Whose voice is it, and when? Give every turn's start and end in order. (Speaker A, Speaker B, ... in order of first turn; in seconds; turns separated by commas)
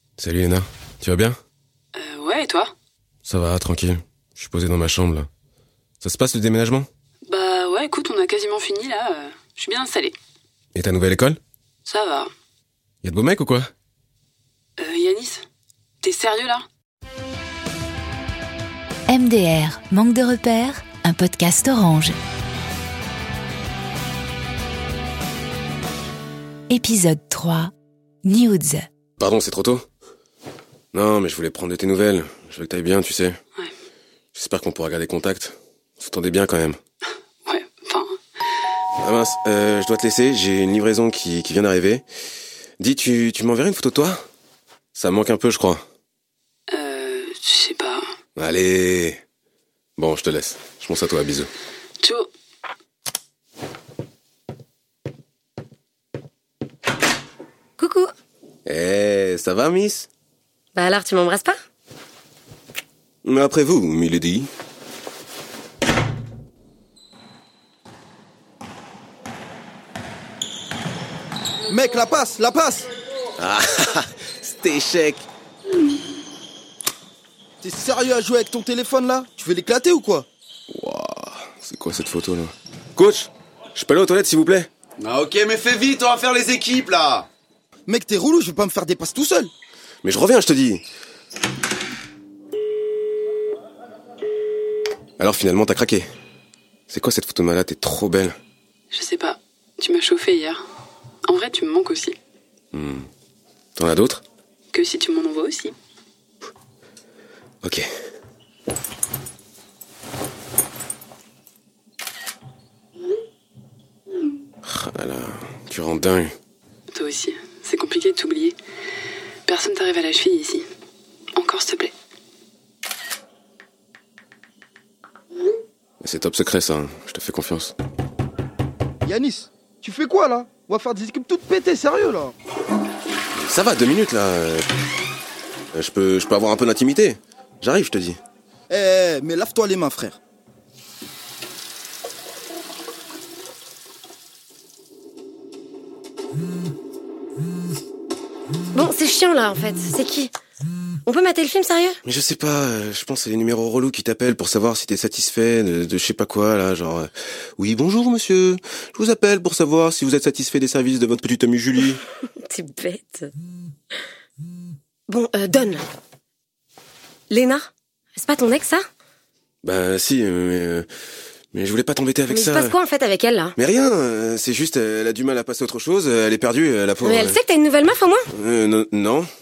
Speaker A: 0.2-1.4, Speaker B: 1.9-2.7, Speaker A: 3.2-5.3, Speaker A: 6.0-6.9, Speaker B: 7.3-10.2, Speaker A: 10.7-11.4, Speaker B: 11.8-12.3, Speaker A: 13.0-13.7, Speaker B: 14.8-15.4, Speaker B: 16.0-16.6, Speaker C: 19.1-22.1, Speaker C: 26.7-27.7, Speaker C: 28.2-28.9, Speaker A: 29.2-29.8, Speaker A: 30.9-33.4, Speaker A: 34.3-36.8, Speaker B: 37.5-38.1, Speaker A: 39.0-42.0, Speaker A: 42.8-44.2, Speaker A: 44.9-45.8, Speaker B: 46.7-48.1, Speaker A: 48.4-49.2, Speaker A: 50.0-51.5, Speaker B: 52.0-52.3, Speaker D: 57.8-58.1, Speaker A: 58.6-60.1, Speaker D: 60.7-61.6, Speaker A: 63.2-64.5, Speaker E: 71.7-72.9, Speaker A: 73.4-75.3, Speaker E: 77.6-80.3, Speaker A: 80.7-84.7, Speaker F: 85.0-87.3, Speaker E: 87.9-89.5, Speaker A: 90.0-90.8, Speaker A: 95.2-96.1, Speaker A: 96.9-98.3, Speaker B: 98.9-100.6, Speaker B: 101.3-102.2, Speaker A: 102.7-103.1, Speaker A: 103.8-104.2, Speaker B: 104.7-105.7, Speaker A: 107.6-107.9, Speaker A: 114.6-116.3, Speaker B: 116.9-118.6, Speaker B: 119.5-120.7, Speaker B: 121.3-121.9, Speaker A: 126.0-127.7, Speaker E: 129.0-132.3, Speaker A: 133.4-134.7, Speaker A: 135.7-138.2, Speaker E: 138.7-140.2, Speaker D: 148.7-150.3, Speaker D: 151.1-152.0, Speaker A: 152.0-162.0, Speaker D: 162.4-163.3, Speaker D: 165.1-165.8, Speaker D: 167.3-168.8, Speaker A: 169.6-170.9, Speaker A: 171.5-172.8, Speaker D: 172.3-173.6, Speaker A: 173.6-177.4, Speaker D: 177.0-178.3, Speaker A: 178.3-179.3